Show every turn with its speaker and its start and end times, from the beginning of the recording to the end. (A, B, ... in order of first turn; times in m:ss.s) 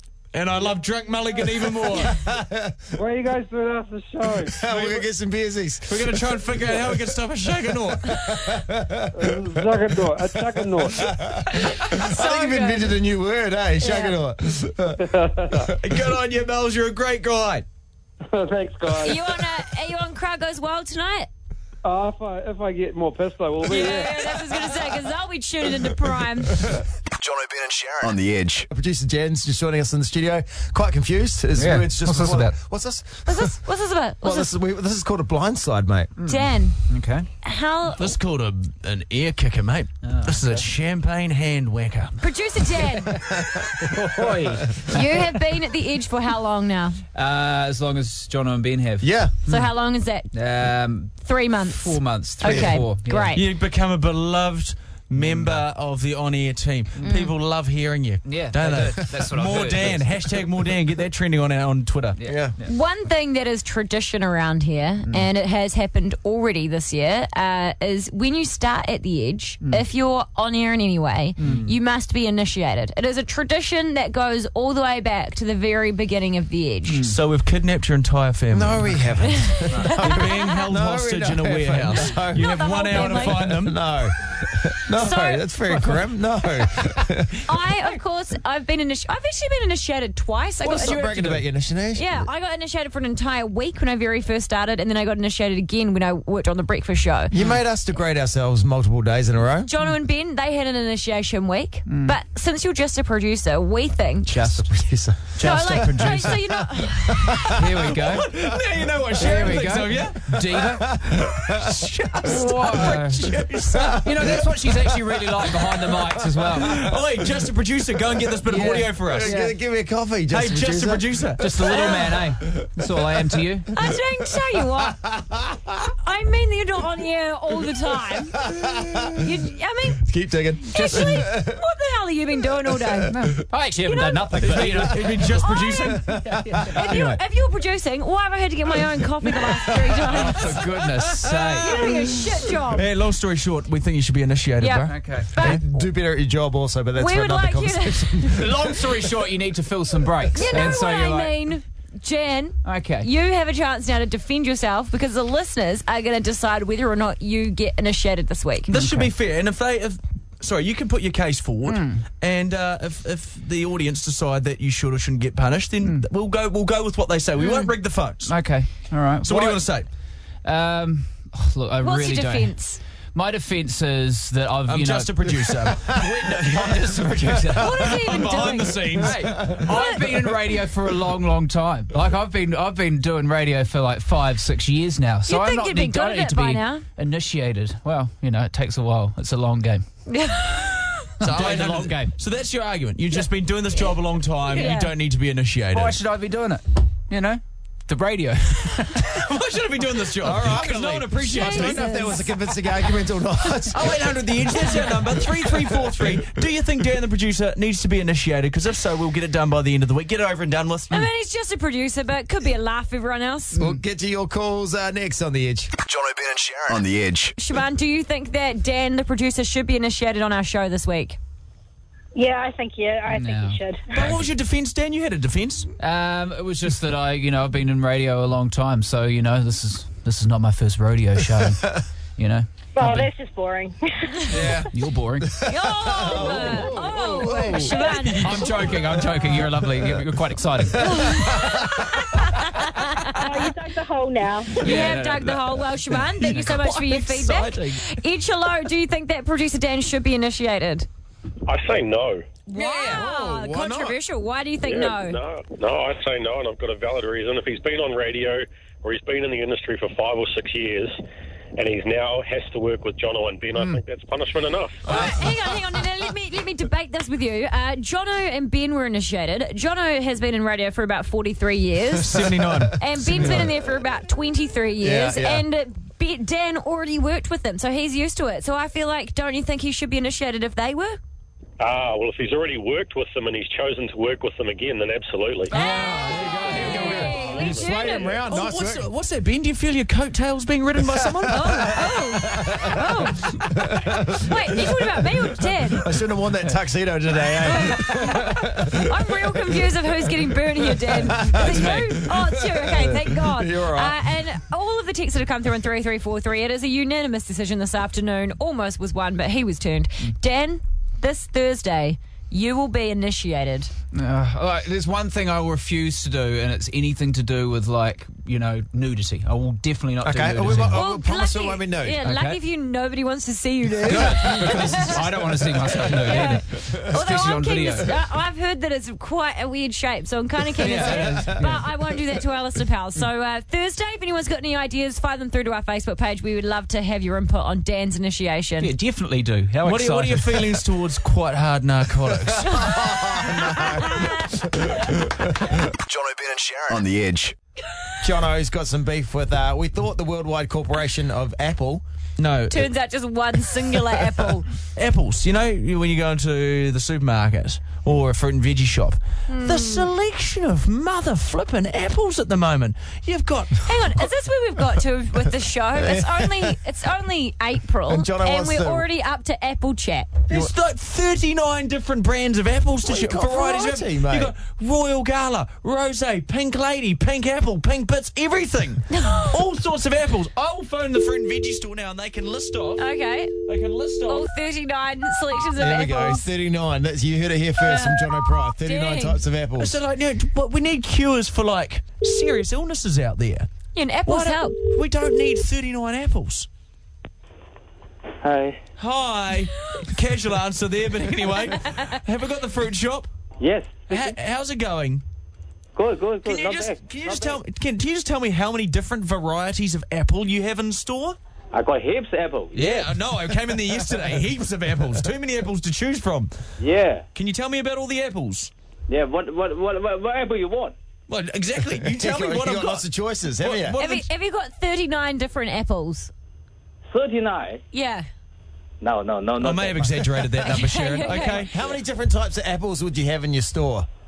0:00.3-0:02.2 A
0:01.9-0:02.8 B
0:03.0-0:04.6 C
0:04.5-0:06.2 B
0:04.7-0:05.0 A
0:05.9-0:08.3 A
0:08.0-0:09.5 B
0:09.1-0:11.1 C
0:10.2-0:15.5 B
0:11.6-0:13.0 D
0:13.8-0:14.2 D
0:15.0-0:15.7 C
0:15.8-0:17.6 A
0:18.3-0:19.2 C
0:19.0-0:21.3 D
0:21.8-0:24.3 C
0:23.6-0:26.7 D
0:27.2-0:28.7 E
0:28.7-0:33.5 B
0:31.6-0:32.5 F
0:33.2-0:34.5 D
0:34.2-0:36.1 B
0:36.2-0:37.3 F
0:36.2-0:36.8 D
0:37.4-0:38.1 D
0:38.0-0:42.2 A
0:40.0-0:40.7 F
0:42.2-0:43.2 D
0:43.2-0:43.9 B
0:43.8-0:45.2 F
0:44.9-0:47.0 D
0:47.1-0:49.7 F
0:49.0-0:49.3 B
0:49.5-0:50.3 D
0:50.3-0:53.4 F
0:51.2-0:53.4 D
0:52.4-0:52.8 B
0:53.3-1:02.2 A
0:55.2-0:55.6 F
0:57.0-0:57.3 F
0:58.2-1:00.1 F
1:02.2-1:02.7 F
1:02.2-1:02.5 B
1:02.6-1:17.0 D
1:11.4-1:11.7 F
1:16.9-1:17.2 F
1:17.0-1:19.1 A
1:18.5-1:27.4 B
1:19.4-1:20.2 D
1:20.0-1:23.8 A
1:22.3-1:23.5 D
1:24.9-1:25.4 D
1:25.7-1:26.0 F
1:27.4-1:31.3 D
1:30.6-1:32.3 B
1:30.7-1:31.4 F
1:31.9-1:37.3 D
1:37.3-1:39.7 B
1:39.6-1:44.3 D
1:41.9-1:42.2 F
1:44.3-1:44.7 F
1:44.3-1:45.7 B
1:45.3-1:46.7 F
1:45.4-1:47.6 D
1:47.1-1:47.8 B
1:47.5-1:48.3 F
1:48.0-1:50.3 A
1:49.2-1:50.9 F
1:50.6-1:52.8 B
1:51.1-1:54.4 A
1:52.2-1:53.3 F
1:53.7-1:54.7 B
1:54.0-1:56.8 F
1:56.5-1:59.4 A
1:58.4-1:59.5 F
1:59.0-2:02.0 B
2:00.3-2:01.8 A
2:01.4-2:03.7 F
2:01.7-2:02.1 D
2:03.7-2:05.0 D
2:04.4-2:05.8 B
2:06.0-2:08.5 D
2:08.4-2:09.2 B
2:09.1-2:10.1 D
2:10.0-2:11.6 B
2:10.6-2:13.1 D
2:12.6-2:13.2 B
2:13.1-2:15.4 F
2:13.8-2:14.4 D
2:14.4-2:16.1 A
2:14.5-2:17.2 B
2:15.4-2:16.0 D
2:16.3-2:17.2 F
2:16.7-2:20.6 D
2:19.9-2:20.2 B
2:20.1-2:22.0 F
2:21.3-2:22.8 D
2:22.7-2:25.6 A
2:24.6-2:25.6 D
2:24.9-2:25.6 F
2:25.4-2:29.1 B
2:27.0-2:28.3 D
2:28.4-2:31.4 F
2:30.3-2:38.7 D
2:32.6-2:33.1 F
2:38.7-2:48.4 A
2:38.7-2:39.1 F
2:41.7-2:42.0 F
2:47.4-2:47.7 D
2:48.2-2:49.7 F
2:49.2-2:49.9 A
2:50.4-2:52.6 F
2:51.8-2:52.8 D
2:53.1-2:58.0 F
2:54.7-2:59.6 A
2:57.6-2:59.0 D
2:58.9-3:09.8 F
2:59.0-2:59.7 B
2:59.7-3:00.0 D
3:05.2-3:06.8 D
3:10.1-3:11.1 D
3:11.2-3:12.1 F
3:11.2-3:16.0 A
3:14.5-3:14.9 D
3:15.7-3:19.2 F
3:19.1-3:21.9 A
3:20.2-3:24.7 B
3:21.3-3:22.3 D
3:23.7-3:31.1 A
3:30.9-3:33.6 D
3:33.5-3:35.7 B
3:35.8-3:37.4 E
3:37.4-3:41.2 D
3:42.1-3:43.8 G
3:43.1-3:43.6 F
3:43.9-3:45.7 A
3:45.8-3:53.1 F
3:52.8-3:53.7 G
3:54.3-3:54.6 B
3:54.3-3:55.5 F
3:55.2-3:58.1 B
3:55.4-3:58.5 D
3:58.1-4:01.2 F
3:58.9-3:59.3 B
4:00.7-4:01.9 B
4:00.9-4:03.1 D
4:03.3-4:04.5 G
4:04.6-4:10.9 D
4:04.6-4:05.6 A
4:04.6-4:05.0 F
4:06.2-4:07.6 A
4:11.5-4:12.2 H
4:12.5-4:15.2 D
4:12.5-4:14.0 B
4:14.6-4:21.0 H
4:21.6-4:24.8 H
4:23.5-4:23.8 F
4:24.8-4:32.2 D
4:24.9-4:25.3 B
4:32.0-4:33.4 A
4:32.7-4:33.5 B
4:32.8-4:41.0 D
4:34.8-4:35.4 B
4:41.6-4:45.5 H
4:45.5-4:48.2 D
4:45.5-4:48.9 B
4:48.2-4:51.7 A
4:50.8-4:59.6 B
4:51.3-4:53.4 D
4:54.1-4:55.9 D
4:57.4-5:13.7 D
5:00.6-5:04.0 B
5:01.5-5:01.8 F
5:13.9-5:20.8 F
5:20.0-5:22.0 B
5:20.7-5:25.0 D
5:22.0-5:22.4 F
5:23.8-5:25.0 B
5:23.9-5:27.9 F
5:25.9-5:38.7 D
5:30.6-5:31.6 B
5:30.6-5:31.6 F
5:38.6-5:40.5 F
5:39.6-5:42.7 A
5:42.3-5:45.6 B
5:42.7-5:44.3 D
5:45.8-5:47.3 E
5:48.0-5:51.8 B
5:52.2-5:52.7 A
5:52.5-5:54.4 D
5:54.7-6:03.8 A
5:59.3-5:59.9 D
6:03.6-6:10.1 D
6:05.7-6:06.6 B
6:07.9-6:08.8 B
6:10.3-6:22.9 A
6:12.8-6:14.3 B
6:18.9-6:19.3 D
6:22.8-6:23.4 D
6:23.4-6:24.3 A
6:24.1-6:26.3 D
6:25.6-6:29.7 B
6:27.6-6:29.2 D
6:29.6-6:33.5 A
6:33.7-6:34.6 D
6:34.0-6:36.5 A
6:38.2-6:38.6 I
6:38.8-6:43.1 A
6:43.4-6:44.1 I
6:43.9-6:45.0 A
6:45.7-6:47.4 I
6:46.2-6:51.2 A
6:51.5-6:52.9 I
6:52.5-6:56.3 A
6:56.6-6:57.0 I
6:57.1-6:58.5 A
6:58.9-7:00.7 I
7:01.1-7:04.1 A
7:01.8-7:03.8 B
7:03.8-7:06.1 D
7:06.9-7:07.6 I
7:07.7-7:08.1 D
7:08.8-7:10.3 I
7:09.4-7:11.5 A
7:10.4-7:11.4 D
7:11.3-7:13.9 B